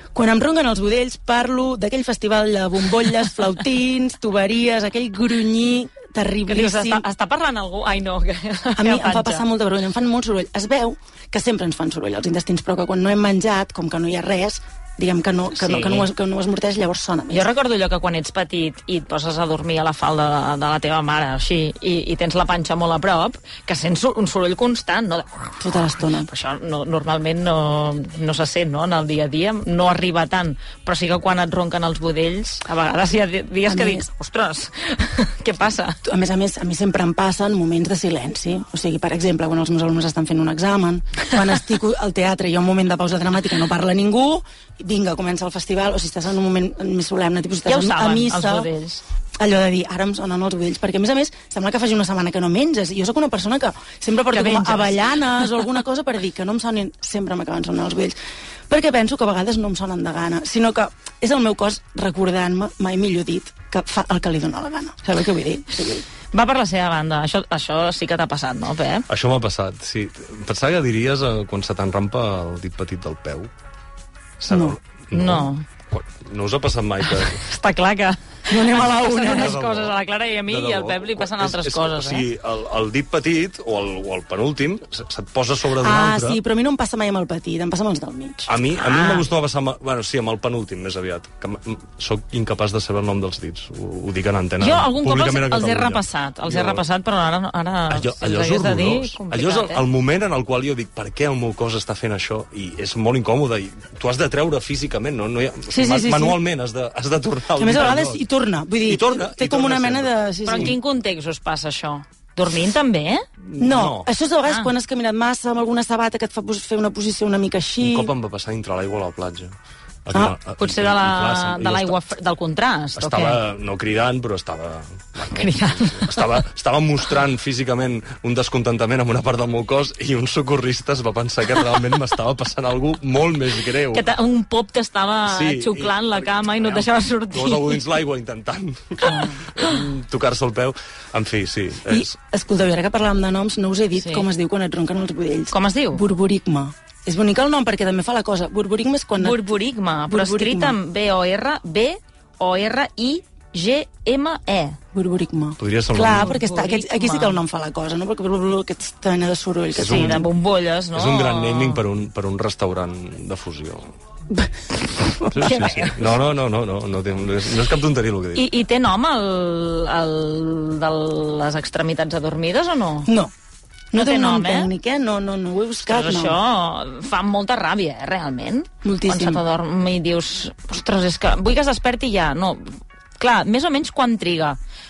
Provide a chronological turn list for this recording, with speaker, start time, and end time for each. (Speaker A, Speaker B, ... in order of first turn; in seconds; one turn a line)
Speaker A: 0.1-7.1
Speaker B: 6.5-9.4
Speaker A: 8.8-17.5
Speaker B: 15.6-16.1
Speaker B: 17.3-36.0
Speaker A: 25.6-26.3
Speaker A: 33.7-34.1
Speaker A: 36.0-48.7
Speaker B: 47.7-49.0
Speaker A: 49.4-58.2
Speaker B: 54.3-55.5
Speaker A: 58.7-66.0
Speaker B: 66.3-69.1
Speaker C: 69.1-73.5
Speaker C: 74.4-77.4
Speaker A: 74.5-74.8
Speaker B: 75.1-75.7
Speaker B: 77.2-82.2
Speaker A: 78.5-79.5
Speaker C: 79.2-80.0
Speaker C: 80.5-86.4
Speaker A: 85.8-88.5
Speaker C: 88.5-96.8
Speaker B: 88.8-89.2
Speaker B: 94.6-99.8
Speaker C: 97.9-108.3
Speaker A: 105.7-106.4
Speaker A: 107.6-110.8
Speaker C: 108.8-110.1
Speaker B: 110.5-113.2
Speaker C: 113.4-114.1
Speaker A: 113.6-118.1
Speaker C: 117.8-119.5
Speaker C: 120.1-122.0
Speaker B: 120.6-123.4
Speaker C: 123.0-134.1
Speaker B: 125.3-126.3
Speaker B: 133.9-137.9
Speaker C: 135.3-142.1
Speaker A: 139.0-139.5
Speaker A: 141.9-149.4
Speaker B: 144.0-144.3
Speaker B: 145.5-146.1
Speaker B: 149.2-154.8
Speaker A: 150.1-150.8
Speaker A: 154.9-160.3
Speaker C: 155.6-156.4
Speaker B: 156.1-157.4
Speaker C: 159.8-160.3
Speaker B: 159.8-161.8
Speaker C: 160.9-163.9
Speaker A: 165.0-165.4
Speaker C: 165.3-168.5
Speaker B: 165.3-166.1
Speaker B: 168.3-173.1
Speaker A: 173.1-173.3
Speaker A: 173.9-176.4
Speaker B: 173.9-174.7
Speaker B: 175.9-184.6
Speaker A: 178.8-179.4